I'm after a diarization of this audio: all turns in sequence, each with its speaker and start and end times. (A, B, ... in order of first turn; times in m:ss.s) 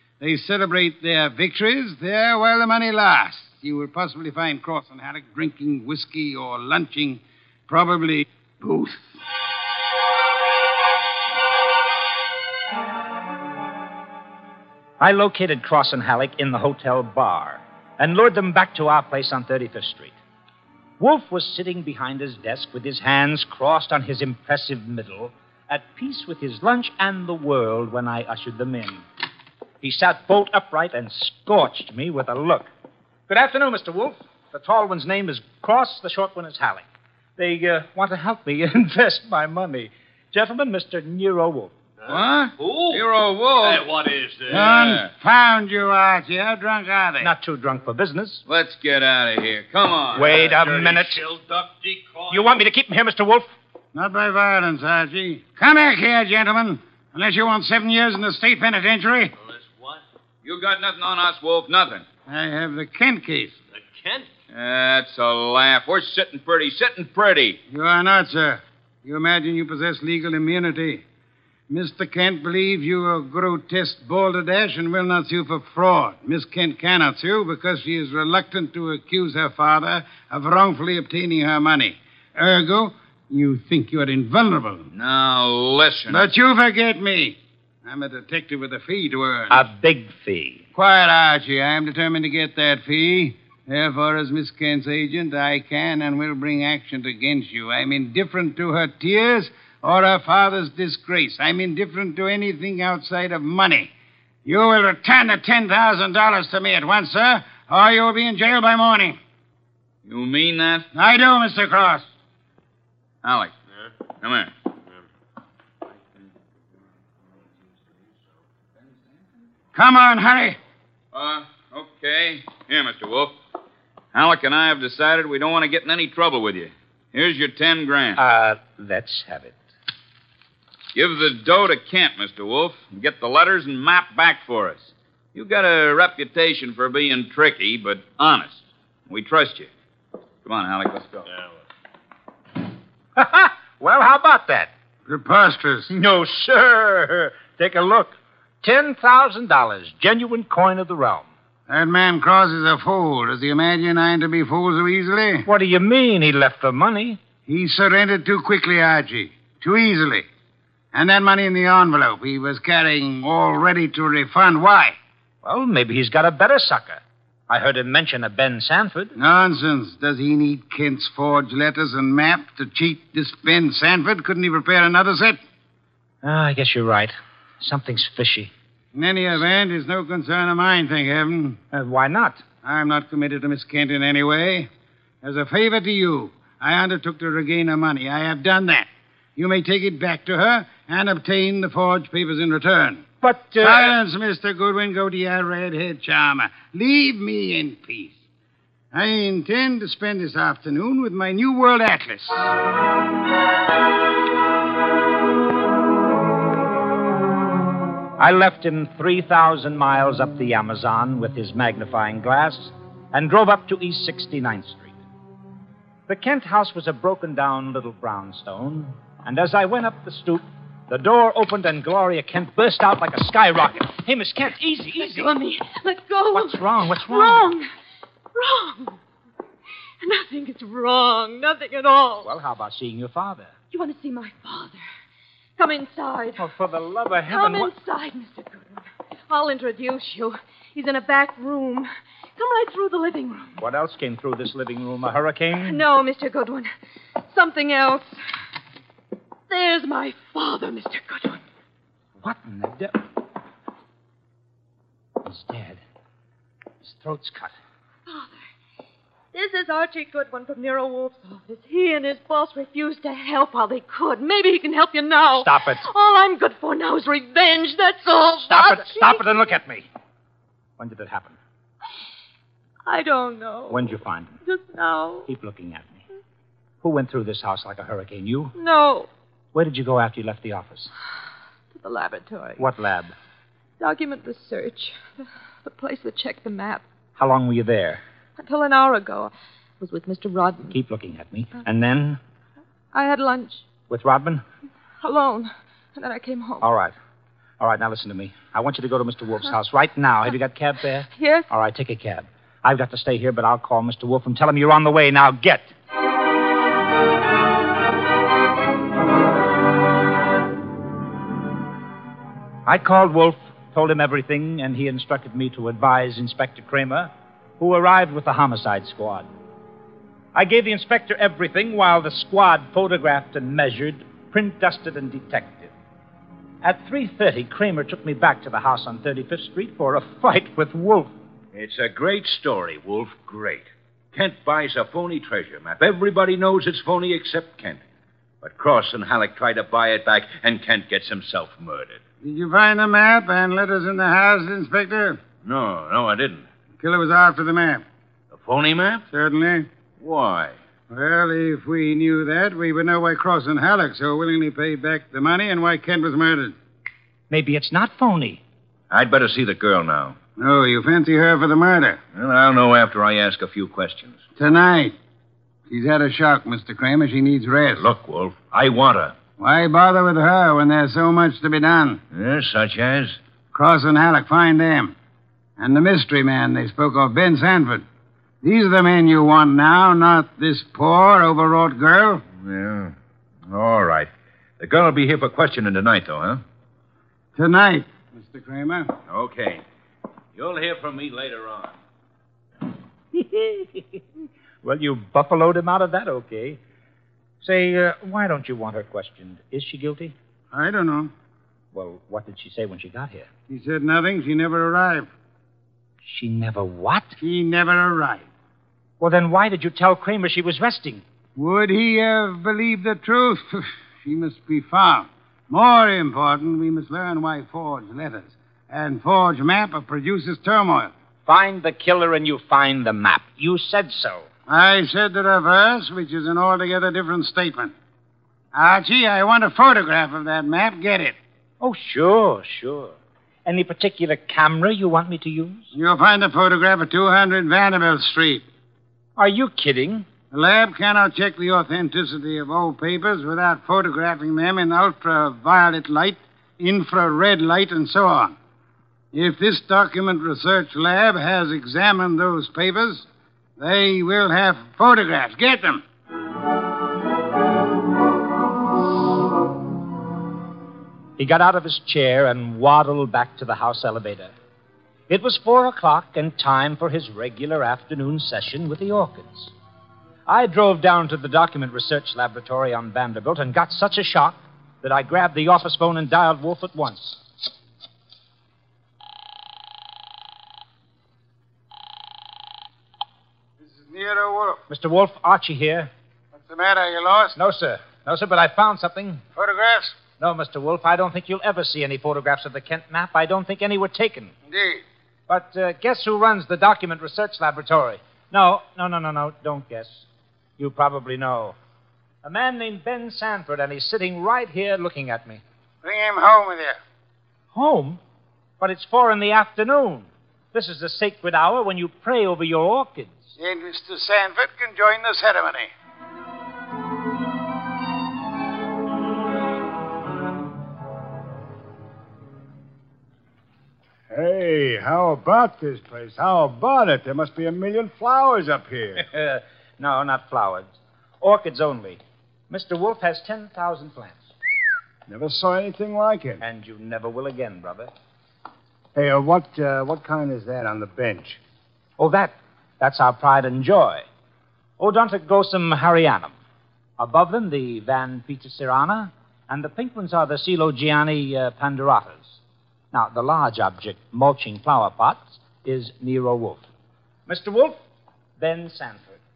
0:00.2-0:09.2 A
0:15.0-0:20.2 B
0:21.0-0:29.0 B
0:29.8-0:32.7 B
0:33.3-0:36.8 B
0:37.4-0:41.7 B
0:42.0-0:43.0 C
0:42.1-0:43.9 D
0:43.6-0:45.0 C
0:44.5-0:47.3 A
0:44.5-0:45.1 D
0:47.2-0:48.4 B
0:48.5-0:50.4 D
0:50.2-0:51.2 B
0:50.2-0:52.6 C
0:52.3-0:53.5 B
0:53.9-0:59.3 A
0:59.4-1:00.0 C
1:00.4-1:02.0 D
1:02.3-1:03.6 A
1:03.7-1:04.3 C
1:04.5-1:07.6 D
1:07.7-1:11.0 A
1:11.7-1:24.9 A
1:24.9-1:26.3 D
1:26.1-1:29.6 A
1:29.5-1:30.6 B
1:30.8-1:43.9 A
1:44.4-1:49.2 A
1:50.0-1:50.9 D
1:50.9-1:52.1 A
1:53.2-1:53.5 D
1:54.2-1:54.5 D
1:59.7-2:00.6 A
2:01.1-2:03.3 D
2:04.1-2:08.2 D
2:08.2-2:09.6 B
2:11.0-2:19.7 D
2:20.4-2:21.3 D
2:23.2-2:24.7 B
2:25.1-2:25.9 A
2:25.9-2:31.3 B
2:31.7-2:35.5 A
2:35.4-2:37.2 B
2:37.5-2:40.3 A
2:40.9-2:45.0 A
2:45.4-2:49.2 B
2:49.2-2:55.4 A
2:56.2-2:58.5 B
2:58.9-3:01.6 A
3:01.7-3:02.4 B
3:02.6-3:04.7 A
3:05.2-3:13.1 A
3:13.2-3:14.0 B
3:13.6-3:18.2 A
3:18.9-3:22.5 A
3:28.2-3:34.9 B
3:36.1-3:45.3 B
3:45.0-3:47.7 E
3:46.3-3:47.5 B
3:48.4-3:49.0 E
3:50.0-3:52.3 E
3:52.2-3:53.5 B
3:53.7-3:54.8 E
3:55.6-3:56.4 E
3:56.4-3:57.7 B
3:57.3-4:03.6 E
4:03.6-4:05.8 B
4:05.6-4:06.7 E
4:07.2-4:08.2 E
4:09.5-4:11.4 E
4:12.2-4:13.1 B
4:15.2-4:15.8 B
4:16.8-4:17.5 B
4:18.1-4:18.4 E
4:19.3-4:29.3 E
4:25.4-4:25.8 B
4:28.5-4:29.9 B
4:30.8-4:31.4 B
4:32.9-4:35.3 E
4:33.7-4:34.4 B
4:35.3-4:36.0 B
4:36.8-4:38.5 B
4:38.6-4:39.1 E
4:39.5-4:40.9 B
4:41.7-4:42.6 E
4:42.6-4:43.1 B
4:43.8-4:45.0 E
4:45.6-4:46.8 E
4:47.2-4:48.0 B
4:48.4-4:50.8 E
4:50.7-4:52.2 B
4:52.9-4:53.6 E
4:53.9-4:54.4 B
4:55.0-4:56.7 E
4:56.6-4:56.9 B
4:57.6-5:05.7 B
5:01.2-5:01.5 E
5:12.7-5:19.3 B
5:20.4-5:25.7 B
5:26.6-5:31.1 B
5:31.5-5:37.8 C
5:38.4-5:42.0 C
5:42.2-5:45.2 A
5:45.4-5:46.5 C
5:46.8-5:47.8 A
5:48.3-5:49.0 C
5:49.1-5:49.7 A
5:50.0-5:50.6 C
5:50.9-5:56.6 A
5:57.3-5:58.4 B
5:58.9-6:00.2 C
6:00.4-6:02.0 A
6:02.1-6:04.2 C
6:04.4-6:05.0 A
6:05.7-6:07.8 A
6:07.8-6:09.2 C
6:09.4-6:12.0 A
6:12.1-6:13.2 C
6:13.5-6:15.0 A
6:15.6-6:17.9 A
6:18.4-6:22.2 A
6:22.3-6:23.0 C
6:23.5-6:26.4 C
6:27.4-6:28.9 A
6:29.1-6:29.6 C
6:30.4-6:31.8 C
6:33.1-6:34.0 B
6:34.6-6:36.6 B
6:37.4-6:40.2 B
6:40.5-6:41.1 A
6:41.7-6:43.3 B
6:43.5-6:45.1 A
6:46.0-6:47.2 B
6:47.2-6:48.3 A
6:49.0-6:51.0 B
6:51.4-7:00.9 A
7:01.3-7:04.3 B
7:04.5-7:07.7 A
7:08.5-7:11.2 A
7:11.6-7:15.7 B
7:15.7-7:18.4 A
7:19.2-7:20.1 B
7:20.3-7:28.4 A
7:29.1-7:33.1 A
7:33.6-7:35.8 A
7:41.2-7:44.3 B
7:45.1-7:49.5 B
7:50.3-7:57.2 B
8:03.6-8:04.6 A
8:04.7-8:05.9 B
8:06.4-8:07.4 A
8:07.4-8:09.2 B
8:09.4-8:10.0 A
8:10.2-8:14.3 B
8:14.5-8:14.8 A
8:15.3-8:20.1 B
8:20.6-8:21.6 B
8:22.2-8:25.4 B
8:25.8-8:26.8 A
8:27.5-8:28.0 B
8:28.6-8:33.2 B
8:33.4-8:35.7 A
8:44.1-8:49.0 F
8:49.0-8:54.3 B
8:55.1-8:56.4 F
8:56.4-8:57.9 B
8:59.0-9:01.4 F
9:02.0-9:04.0 B
9:04.8-9:06.3 B
9:07.0-9:12.4 B
9:12.9-9:16.7 B
9:17.3-9:17.8 B
9:18.4-9:19.2 B